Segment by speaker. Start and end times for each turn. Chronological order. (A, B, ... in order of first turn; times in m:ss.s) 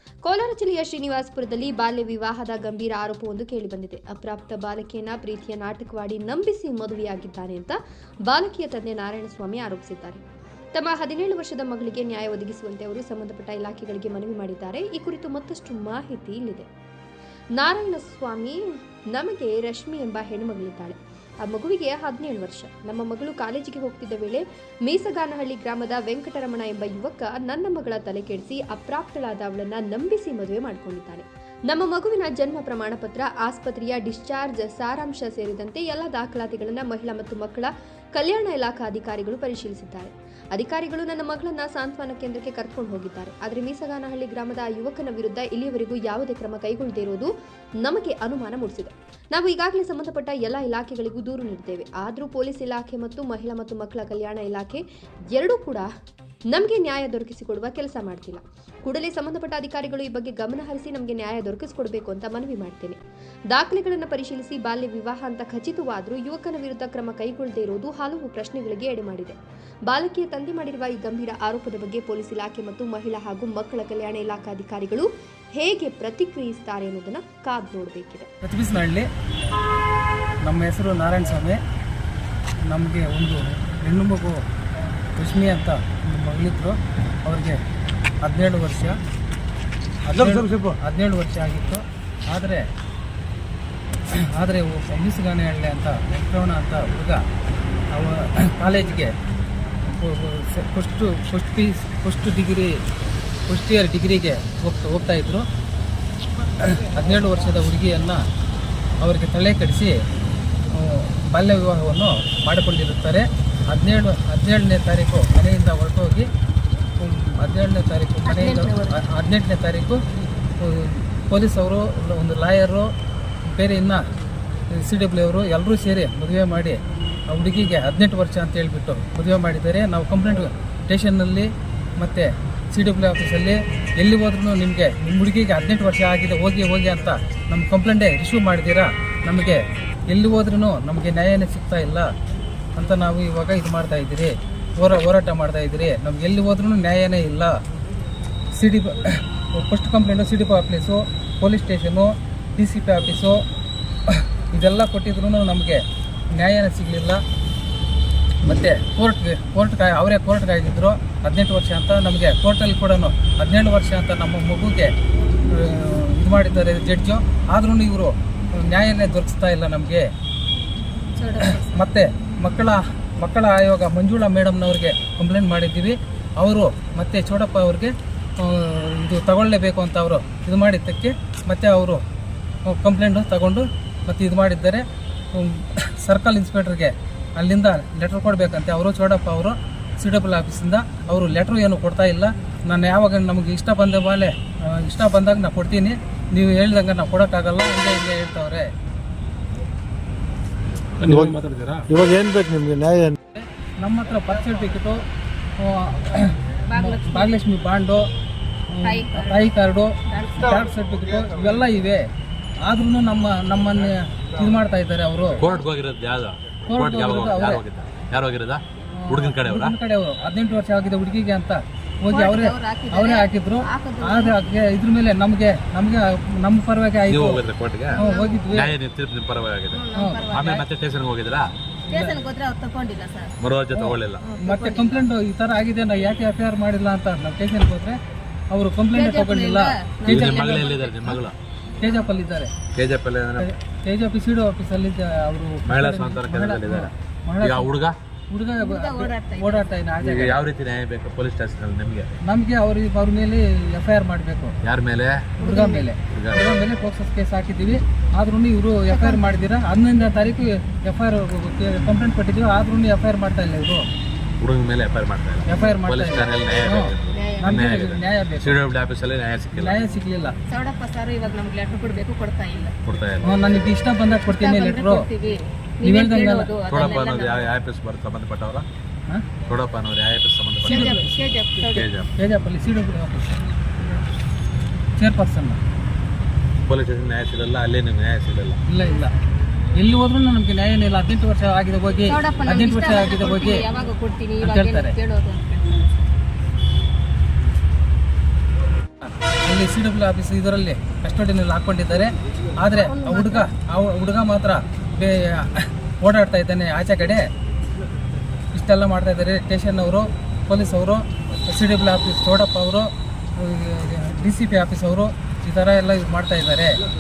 0:00.2-0:10.2 A
0:10.8-0:16.7 A
0:17.6-0:47.3 A
0:47.8-0:55.9 A
0:56.5-1:03.0 A
1:03.5-1:18.3 A
1:18.4-1:19.1 B
1:20.5-1:21.6 B
1:22.7-1:24.4 B
1:25.2-1:27.6 B
1:28.2-1:29.0 B
1:30.1-1:32.6 B
1:30.4-1:30.7 C
1:34.1-1:37.2 B
1:37.9-1:39.1 B
1:39.9-1:42.8 B
1:43.5-1:45.4 B
1:46.6-1:48.2 B
1:49.0-1:50.0 B
1:50.7-1:56.3 B
1:57.0-2:00.0 B
1:58.2-1:59.0 D
2:00.6-2:02.9 B
2:03.4-2:04.0 B
2:04.7-2:22.1 B
2:22.8-2:27.6 B
2:28.6-2:33.4 B
2:34.1-2:37.2 B
2:38.4-2:44.9 B
2:45.5-2:50.1 B
2:51.2-2:51.8 D
2:51.4-3:02.0 B
3:02.6-3:18.7 B
3:21.0-3:23.2 C
3:23.4-3:25.0 B
3:25.6-3:28.1 B
3:26.7-3:27.3 D
3:28.7-3:32.1 B
3:28.8-3:29.5 D
3:30.1-3:30.6 D
3:32.6-3:35.4 B
3:35.4-3:39.8 E
3:36.7-3:37.6 B
3:39.0-3:47.4 B
3:42.1-3:44.4 D
3:47.1-3:51.5 E
3:47.9-3:48.6 D
3:48.0-3:48.7 B
3:49.7-3:50.7 D
3:50.0-3:50.2 B
3:51.9-3:53.3 D
3:51.9-3:52.2 B
3:53.4-3:54.3 E
3:53.7-3:58.0 B
3:54.2-3:55.1 D
3:58.5-4:00.7 B
3:58.9-4:01.2 D
4:00.0-4:01.4 E
4:01.8-4:02.5 B
4:02.7-4:03.5 E
4:03.4-4:07.7 B
4:05.6-4:06.9 E
4:07.4-4:08.0 E
4:08.3-4:10.4 B
4:08.6-4:09.7 D
4:10.0-4:12.1 E
4:12.2-4:14.6 B
4:14.6-4:15.4 E
4:15.4-4:15.9 D
4:15.4-4:23.8 B
4:16.1-4:16.6 E
4:18.9-4:19.3 D
4:24.4-4:29.8 E
4:25.5-4:28.6 B
4:27.1-4:27.6 D
4:29.6-4:30.4 B
4:30.5-4:32.8 D
4:32.8-4:33.7 E
4:33.2-4:35.1 B
4:34.3-4:37.6 D
4:35.8-4:36.6 B
4:36.7-4:38.7 E
4:39.5-4:41.0 E
4:40.6-4:41.9 D
4:40.7-4:41.2 B
4:41.7-4:42.1 E
4:42.2-4:43.4 B
4:45.0-4:45.6 B
4:46.6-4:48.6 E
4:48.7-4:49.1 B
4:49.7-4:53.7 B
4:52.1-4:55.9 D
4:54.4-4:55.0 B
4:59.0-5:07.3 B
5:02.7-5:03.5 D
5:08.5-5:16.8 B